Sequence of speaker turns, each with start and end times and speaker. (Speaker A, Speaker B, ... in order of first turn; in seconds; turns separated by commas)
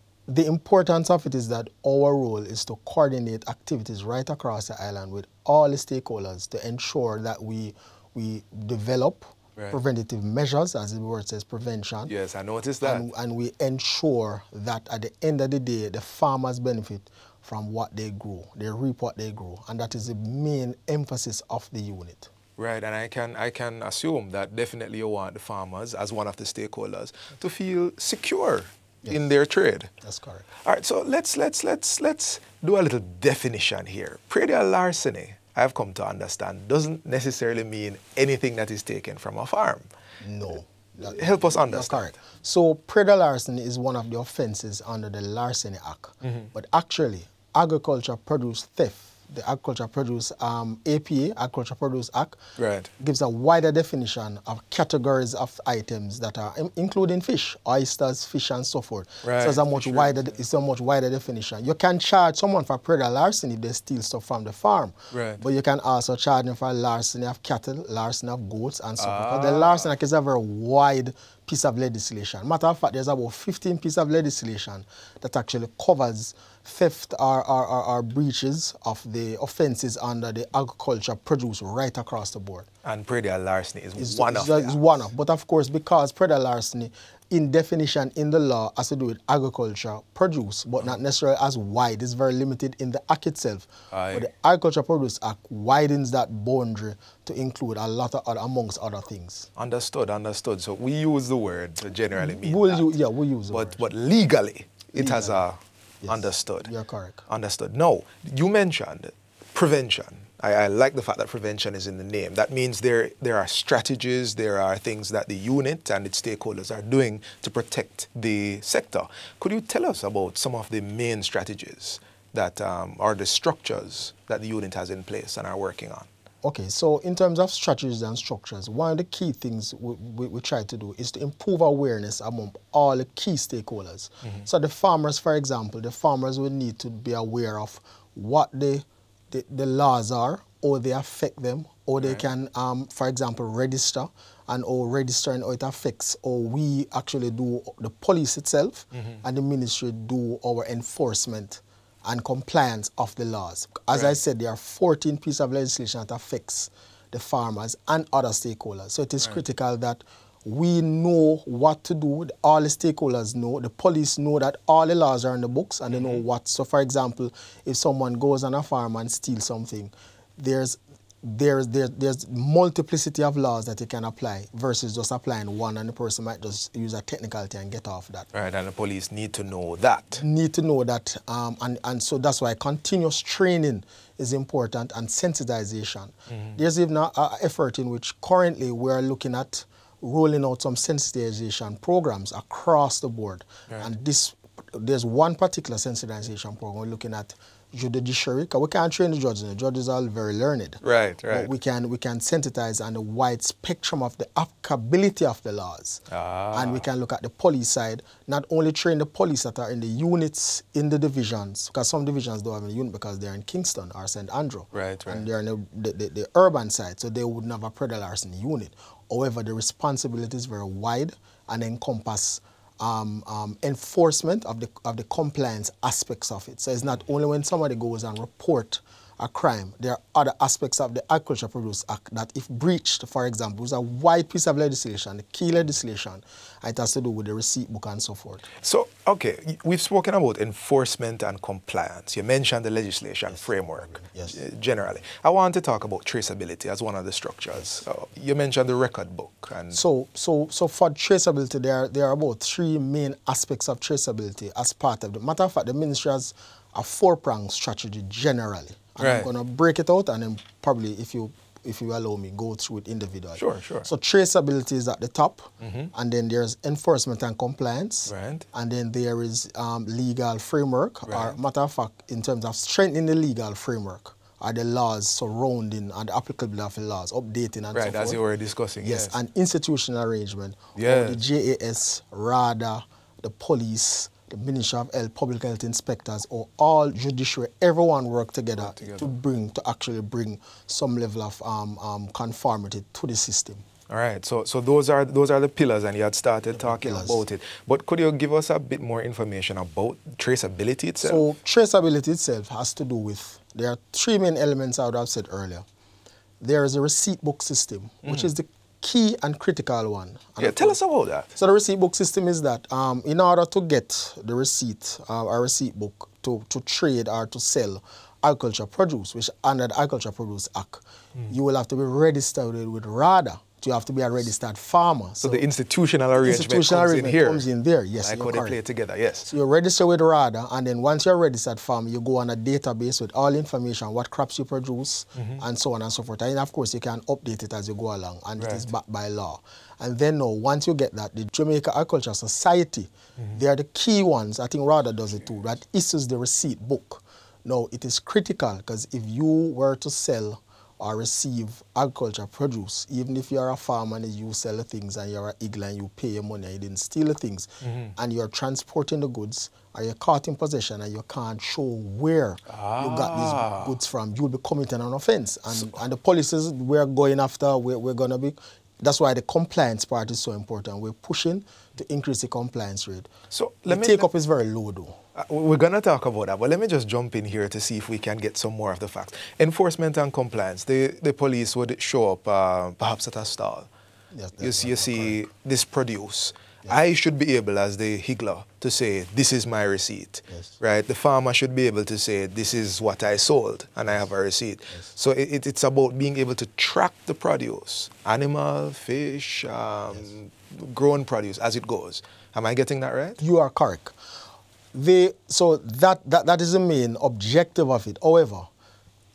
Speaker A: 0.3-12.1, Speaker B: 12.1-13.1, Speaker A: 12.8-22.3, Speaker B: 22.6-29.9, Speaker A: 30.0-30.4, Speaker B: 30.6-39.9, Speaker A: 40.2-52.4, Speaker B: 41.0-42.0, Speaker B: 52.6-52.9, Speaker A: 53.0-82.7, Speaker B: 59.2-60.3, Speaker B: 65.1-65.4, Speaker B: 69.0-69.9, Speaker B: 82.8-85.0, Speaker A: 84.0-99.5, Speaker B: 93.9-94.3, Speaker B: 99.6-102.9, Speaker A: 102.2-103.8, Speaker B: 103.5-106.7, Speaker A: 105.0-105.5, Speaker A: 106.0-107.2, Speaker B: 107.3-126.1, Speaker A: 126.4-178.3, Speaker B: 142.0-142.2, Speaker B: 148.9-149.2, Speaker B: 165.9-166.2, Speaker B: 178.3-180.2, Speaker A: 180.1-238.5, Speaker B: 186.3-186.6, Speaker B: 200.8-201.5, Speaker B: 206.1-206.8, Speaker B: 214.7-215.3, Speaker B: 238.6-249.8, Speaker A: 243.3-244.4, Speaker A: 249.7-278.2, Speaker B: 259.0-259.3, Speaker B: 263.4-263.9, Speaker B: 265.6-265.9, Speaker B: 268.1-268.4, Speaker B: 271.1-271.4, Speaker B: 277.7-279.2, Speaker A: 278.8-293.6, Speaker B: 280.8-281.2, Speaker B: 288.6-289.1, Speaker B: 293.9-301.3, Speaker A: 296.5-297.2, Speaker A: 301.0-305.6, Speaker A: 306.4-310.8, Speaker B: 308.0-308.3, Speaker B: 310.4-311.3, Speaker A: 311.4-325.4, Speaker B: 325.2-327.4, Speaker A: 326.2-328.6, Speaker B: 328.0-329.3, Speaker A: 329.2-373.1, Speaker B: 335.1-335.4, Speaker B: 338.4-338.7, Speaker B: 357.6-357.9, Speaker B: 362.5-363.7, Speaker B: 365.5-365.8, Speaker B: 373.3-374.1, Speaker A: 373.7-375.0, Speaker B: 375.1-383.7, Speaker A: 384.1-385.2, Speaker B: 384.4-403.2, Speaker A: 390.3-390.6, Speaker A: 403.2-403.9, Speaker A: 404.7-408.5